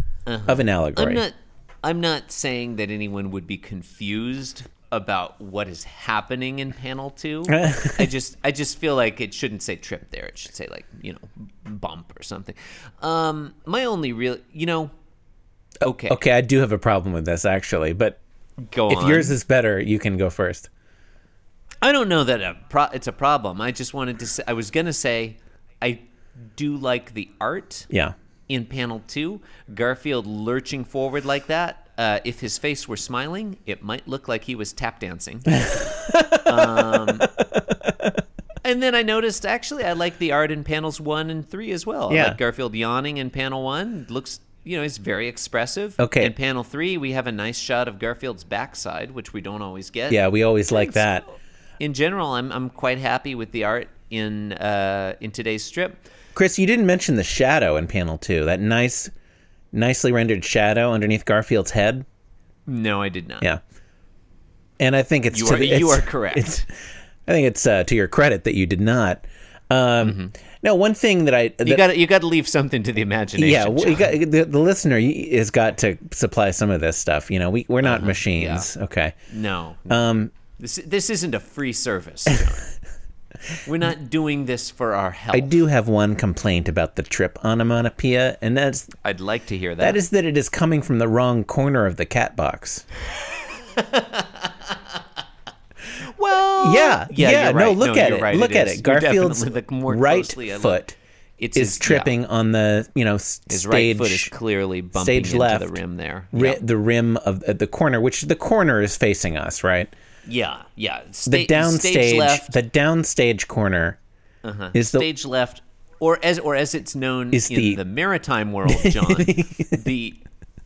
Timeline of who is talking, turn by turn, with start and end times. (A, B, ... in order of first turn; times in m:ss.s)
0:00.3-0:14.9 A
0:00.5-0:01.2 B
0:07.5-0:08.1 B
0:15.8-0:16.2 A
0:15.8-0:18.2 B
0:18.7-0:19.4 A
0:18.9-0:20.7 B
0:21.8-0:27.9 A
0:28.5-0:35.8 A
0:35.7-0:37.3 B
0:36.4-0:37.3 A
0:38.6-0:51.2 A
0:42.1-0:42.4 B
0:46.0-0:46.3 B
0:50.1-0:51.2 B
0:51.8-0:56.0 A
0:56.4-0:59.1 B
0:59.7-1:02.1 B
1:02.7-1:03.5 A
1:04.8-1:06.7 B
1:05.3-1:06.6 A
1:07.3-1:11.8 B
1:10.0-1:10.3 A
1:11.6-1:14.1 A
1:13.4-1:19.2 B
1:17.8-1:18.7 A
1:19.3-1:20.0 A
1:19.9-1:20.3 B
1:20.6-1:22.7 A
1:23.6-1:25.6 A
1:25.3-1:28.9 B
1:29.0-1:30.0 A
1:29.8-1:32.8 B
1:33.4-1:34.8 A
1:35.9-1:40.8 A
1:36.6-1:41.0 B
1:41.4-1:42.2 A
1:41.6-1:44.3 B
1:43.5-1:46.6 A
1:45.0-1:45.8 B
1:46.3-1:49.9 B
1:50.2-1:52.5 A
1:51.3-1:54.0 B
1:54.4-2:00.2 A
1:54.7-1:55.1 B
1:57.3-1:57.8 B
1:58.7-1:59.8 B